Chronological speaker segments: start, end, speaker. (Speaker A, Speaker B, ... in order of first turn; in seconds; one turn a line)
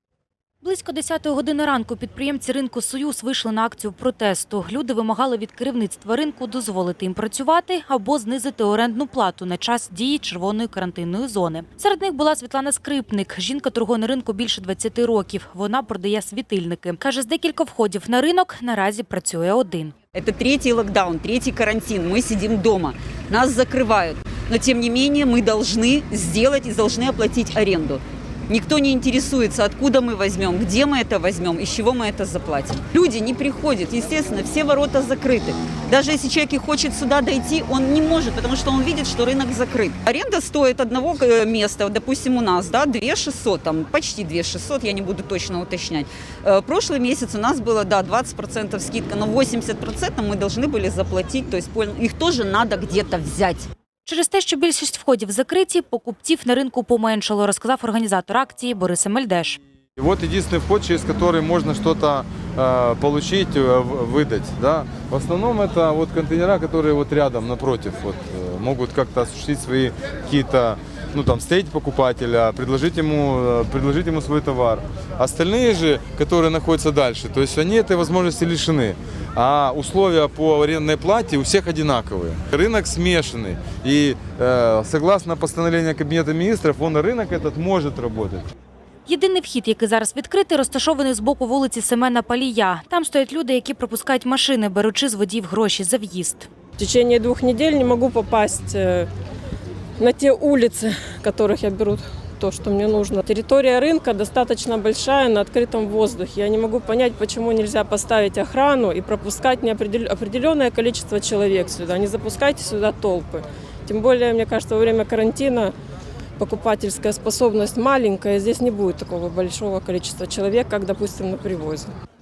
Speaker A: 0.6-19.9
Speaker B: 20.1-53.7
Speaker A: 54.0-59.6
Speaker C: 60.0-88.4
Speaker A: 89.0-96.5
Speaker D: 96.8-99.1
Speaker D: 100.0-115.7
Speaker D: 116.4-121.9